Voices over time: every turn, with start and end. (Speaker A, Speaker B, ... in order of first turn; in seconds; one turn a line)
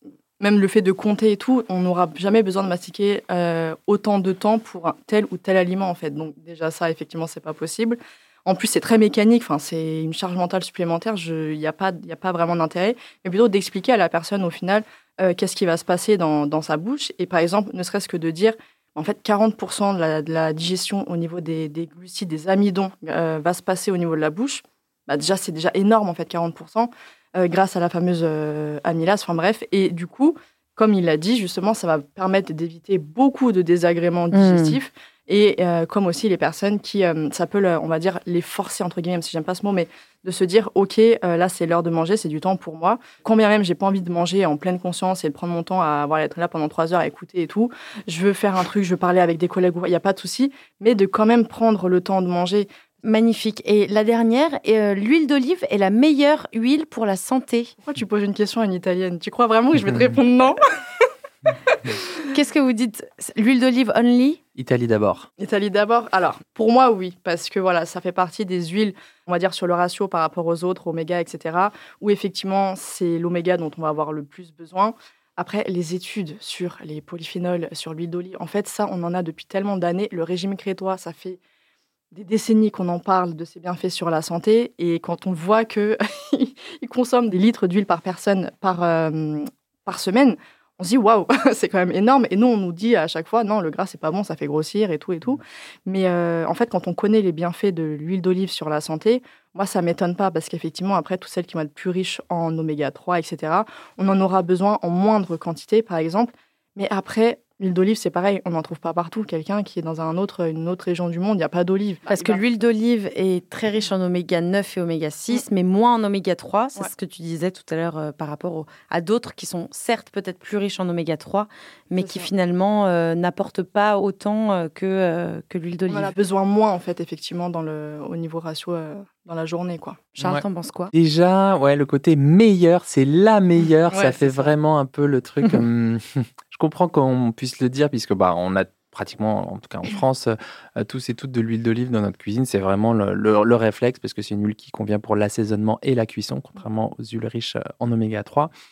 Speaker A: 0.4-52.7
Speaker B: 34.3-34.8
Speaker B: 53.0-57.7
Speaker A: 57.8-60.6
Speaker B: 62.3-64.4
Speaker C: 64.5-65.3
Speaker A: 65.4-81.4
Speaker A: 82.1-112.4
Speaker B: 112.1-126.1
Speaker A: 122.0-122.3
Speaker A: 125.9-130.1
Speaker B: 130.2-130.9
Speaker C: 130.2-148.5
Speaker A: 133.9-134.5